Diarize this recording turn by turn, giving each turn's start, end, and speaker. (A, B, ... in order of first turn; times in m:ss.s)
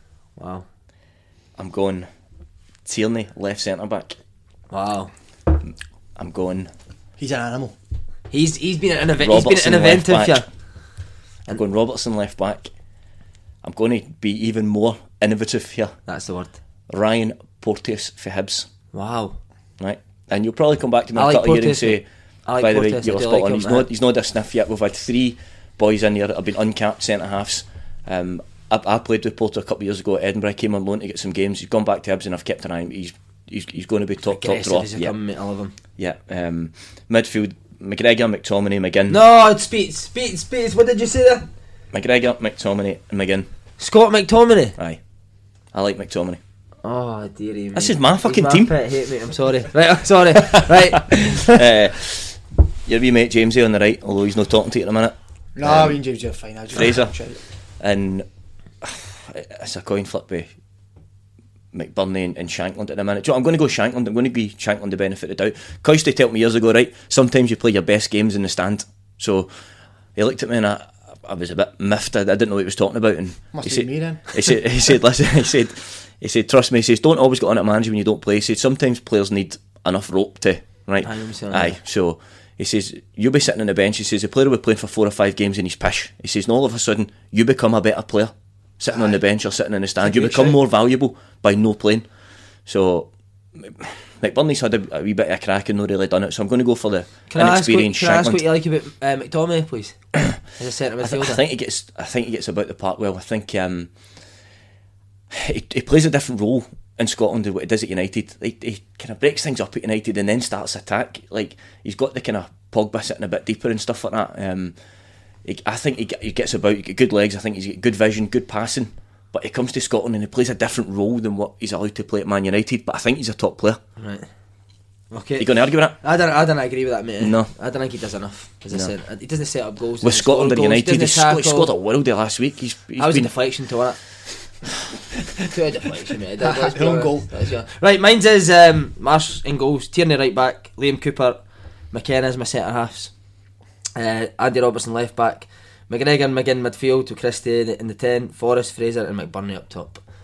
0:00.4-0:00.6 A
0:01.6-0:02.1 B
0:02.8-0:04.2 B
0:04.7-0:05.1 A
0:06.2-0:06.7 B
0:07.2-0:07.7 C
0:08.3-0:10.4 A
0:09.2-0:10.4 B
0:11.5-0:12.7 B
0:13.6-0:15.9 B
0:16.1-0:16.5 A
0:16.9-0:18.7 B
0:18.9-0:19.4 A
0:19.8-0:22.0 B
0:21.2-0:23.9 A
0:22.6-0:35.1 B
0:34.2-0:35.7 A
0:36.0-0:39.2 B
0:39.1-0:41.5 A
0:41.9-0:43.5 B
0:43.8-0:44.8 A
0:45.7-0:46.4 B
0:46.8-0:51.2 A
0:47.7-0:48.7 B
0:50.5-0:56.0 B
0:55.6-0:57.4 C
0:56.7-0:57.1 B
0:57.8-0:58.2 B
0:58.8-1:00.5 B
1:01.7-1:09.5 B
1:10.2-1:32.0 B
1:13.5-1:14.4 C
1:21.0-1:21.8 A
1:30.0-1:30.6 A
1:32.6-1:38.4 B
1:37.3-1:40.0 A
1:40.6-1:41.4 A
1:41.0-1:43.9 B
1:45.3-1:54.7 B
1:55.4-2:03.8 B
2:04.0-2:04.3 A
2:05.1-2:11.7 A
2:05.4-2:06.0 B
2:07.2-2:07.5 B
2:10.0-2:13.3 B
2:13.0-2:14.0 A
2:15.4-2:21.4 A
2:16.4-2:17.3 C
2:21.9-2:23.1 A
2:24.0-2:30.0 A